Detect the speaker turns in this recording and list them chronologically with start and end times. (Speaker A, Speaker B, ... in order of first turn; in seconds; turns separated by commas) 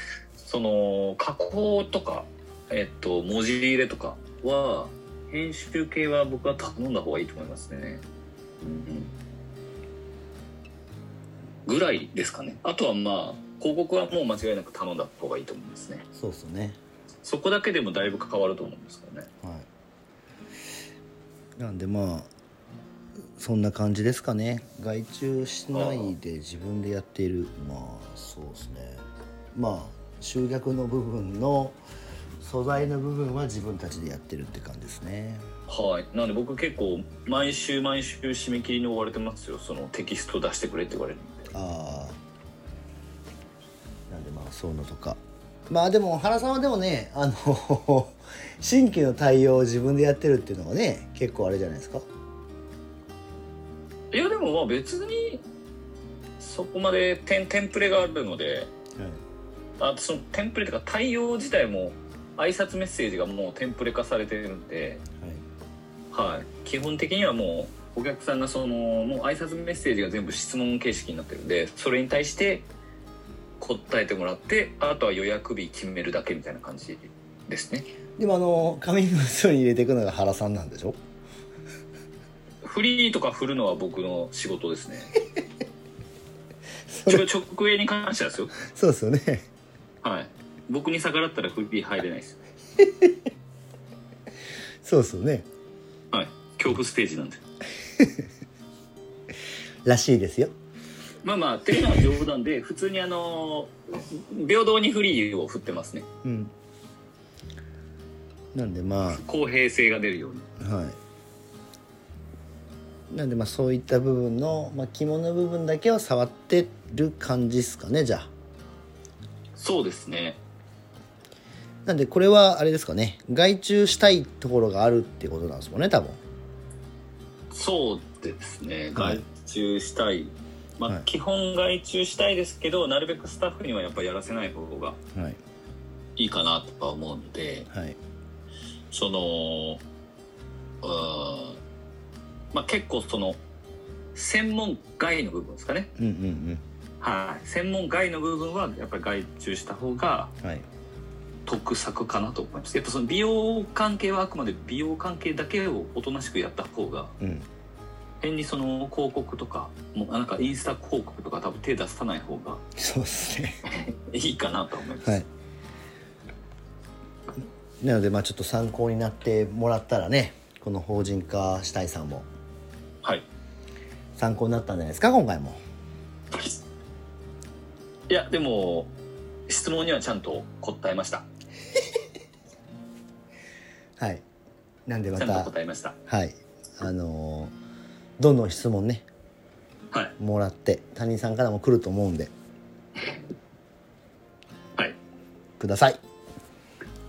Speaker A: 0.4-8.0, Speaker A: 8.6-9.1, Speaker A: 11.7-16.1, Speaker B: 16.1-16.8, Speaker A: 17.2-19.3, Speaker B: 21.6-22.3, Speaker B: 23.4-29.0, Speaker A: 25.7-26.1, Speaker B: 29.6-31.8, Speaker B: 32.4-35.5, Speaker A: 35.7-41.5, Speaker B: 41.5-42.2, Speaker B: 44.1-52.0, Speaker A: 54.1-55.5, Speaker A: 56.4-58.7, Speaker A: 59.8-65.0, Speaker A: 66.1-72.7, Speaker A: 73.6-77.9, Speaker B: 78.2-81.0, Speaker A: 82.6-85.2, Speaker B: 86.9-87.3, Speaker A: 87.1-88.6, Speaker B: 88.6-89.5, Speaker A: 90.0-92.4, Speaker B: 92.8-93.2, Speaker B: 94.8-95.5, Speaker A: 96.1-97.4, Speaker B: 98.0-98.3, Speaker B: 99.8-100.5, Speaker A: 101.2-106.1, Speaker B: 106.2-106.5, Speaker B: 108.5-109.2, Speaker A: 109.1-110.5, Speaker B: 110.6-111.0, Speaker B: 113.1-118.3, Speaker A: 119.6-120.4, Speaker B: 121.9-126.2, Speaker A: 127.5-135.0, Speaker B: 128.9-129.2, Speaker A: 136.2-137.7, Speaker B: 137.7-138.0, Speaker A: 138.9-139.8, Speaker A: 140.8-141.6, Speaker A: 142.5-143.4, Speaker A: 144.2-145.9, Speaker B: 146.0-146.6, Speaker A: 147.0-150.3, Speaker A: 151.5-157.2, Speaker B: 157.2-157.5, Speaker A: 158.2-162.6, Speaker B: 162.8-163.6, Speaker A: 163.7-165.2, Speaker B: 167.8-172.3, Speaker B: 174.2-175.6, Speaker A: 178.1-178.9, Speaker A: 179.5-181.3, Speaker B: 184.0-184.2, Speaker B: 184.9-185.5, Speaker A: 185.2-186.0, Speaker B: 186.1-187.5, Speaker B: 188.2-189.1, Speaker B: 190.2-192.3, Speaker B: 195.6-196.0